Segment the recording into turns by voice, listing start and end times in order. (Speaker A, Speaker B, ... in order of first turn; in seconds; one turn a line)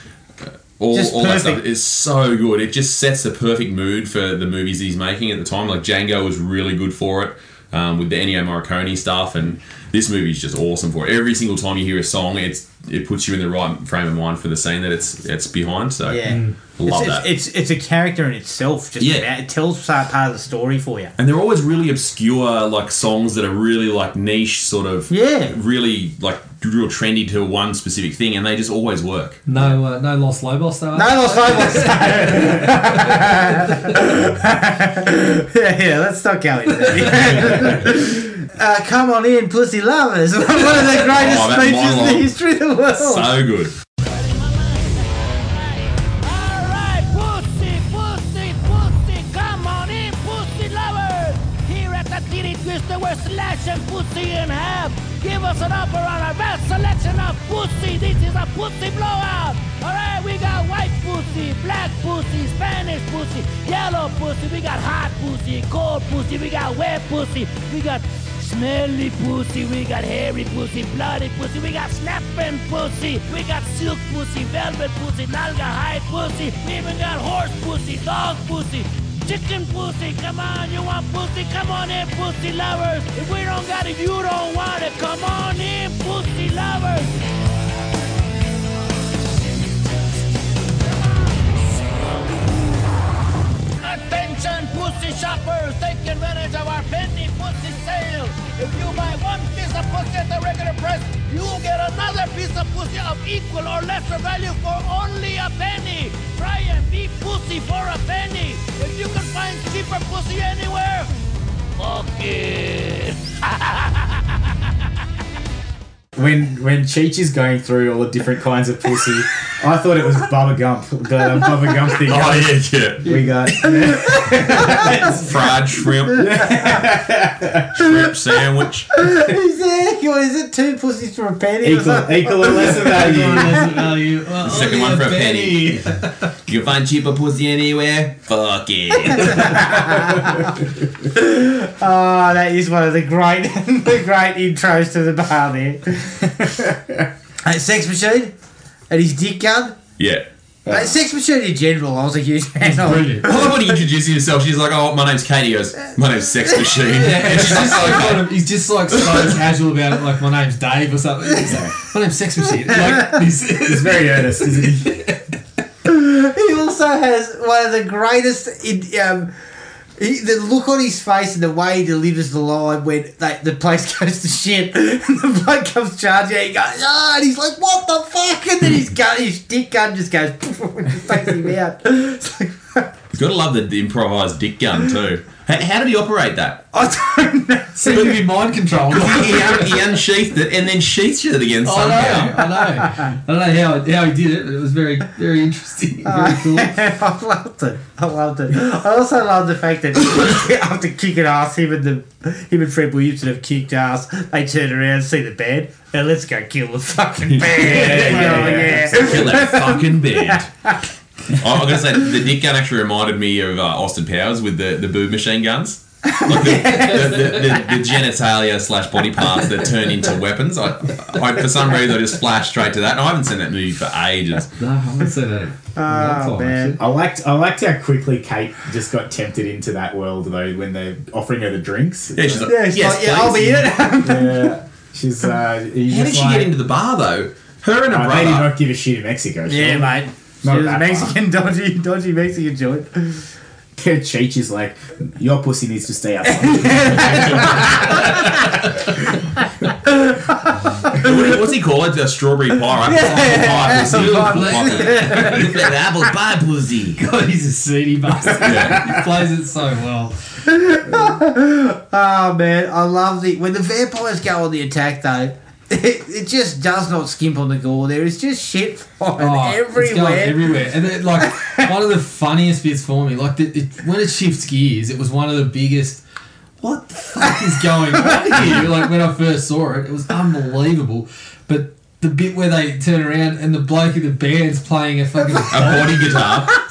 Speaker A: 0.4-16.2
Speaker B: 0.9-1.6
Speaker B: 16.0-21.1
Speaker C: 16.2-16.6
Speaker A: 16.8-17.3
Speaker A: 19.0-19.3
Speaker A: 21.2-29.4
Speaker B: 25.1-25.6
Speaker C: 29.5-33.1
Speaker B: 30.9-43.3
Speaker A: 40.8-42.3
Speaker A: 42.9-43.7
Speaker D: 44.0-87.1
Speaker D: 92.0-92.3
Speaker D: 93.8-111.1
Speaker D: 111.8-114.2
Speaker E: 116.1-125.2
Speaker A: 122.0-123.0
Speaker B: 123.6-125.0
Speaker A: 124.8-126.3
Speaker B: 126.1-126.9
Speaker E: 126.1-127.7
Speaker A: 127.7-128.9
Speaker B: 128.9-133.8
Speaker E: 131.6-133.7
Speaker C: 132.5-136.1
Speaker A: 134.4-139.8
Speaker B: 139.0-146.6
Speaker B: 147.4-148.3
Speaker B: 148.9-149.8
Speaker A: 150.0-150.2
Speaker E: 150.7-150.9
Speaker B: 150.7-153.8
Speaker C: 152.6-153.3
Speaker A: 153.2-158.4
Speaker C: 156.9-165.2
Speaker A: 158.9-159.3
Speaker E: 161.4-161.7
Speaker E: 163.6-165.1
Speaker B: 165.8-169.3
Speaker B: 170.0-182.9
Speaker A: 183.1-186.7
Speaker B: 186.7-188.2
Speaker C: 187.8-189.7
Speaker A: 187.9-188.2
Speaker A: 188.9-192.4
Speaker C: 191.6-196.7
Speaker B: 192.2-193.1
Speaker B: 196.0-210.7
Speaker A: 207.2-210.5
Speaker E: 207.5-209.3
Speaker A: 211.3-224.5
Speaker B: 216.1-217.4
Speaker C: 216.6-217.6
Speaker C: 224.6-226.8
Speaker B: 225.8-226.8
Speaker E: 226.8-232.5
Speaker A: 232.1-233.8
Speaker B: 232.4-234.6
Speaker E: 234.0-236.5
Speaker A: 235.9-238.5
Speaker E: 237.9-241.2
Speaker B: 239.5-243.2
Speaker E: 243.8-248.4
Speaker B: 246.2-248.5
Speaker A: 247.1-247.5
Speaker C: 248.4-248.7
Speaker B: 249.6-251.4
Speaker A: 250.9-257.0
Speaker B: 252.8-255.8
Speaker C: 253.0-255.5
Speaker C: 257.0-260.1
Speaker A: 258.4-259.0
Speaker B: 260.4-270.7
Speaker C: 269.2-276.0
Speaker B: 271.2-271.7
Speaker C: 276.6-286.2
Speaker B: 277.4-278.6
Speaker A: 278.4-278.6
Speaker A: 285.5-286.5